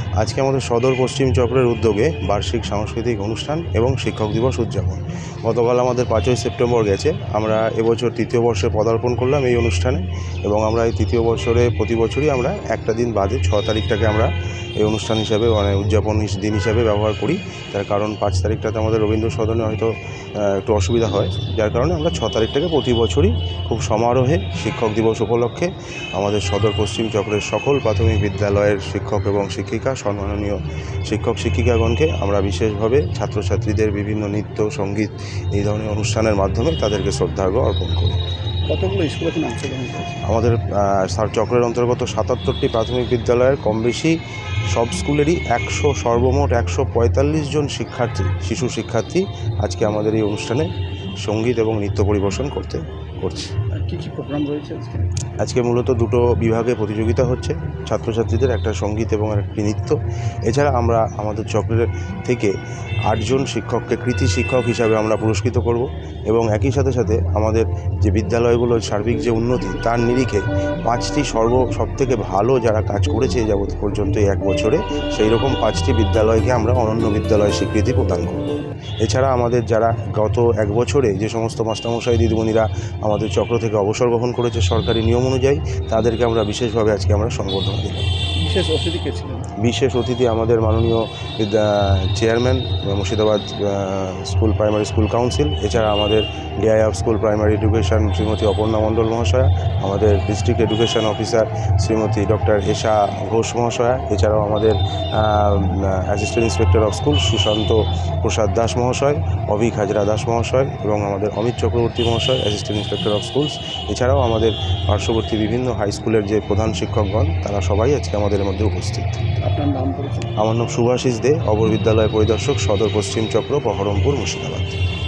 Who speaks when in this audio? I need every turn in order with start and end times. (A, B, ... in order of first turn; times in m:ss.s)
0:00.2-0:38.2 A
0:38.7-0:40.2 B
0:40.2-0:44.2 A
0:44.7-0:50.7 A
0:51.2-0:53.5 A
0:53.7-0:55.1 B
0:55.4-1:02.6 A
1:03.0-1:18.4 A
1:19.0-1:28.1 A
1:28.4-1:29.5 B
1:29.6-1:59.2 A
1:59.4-2:00.3 B
2:00.4-2:04.8 A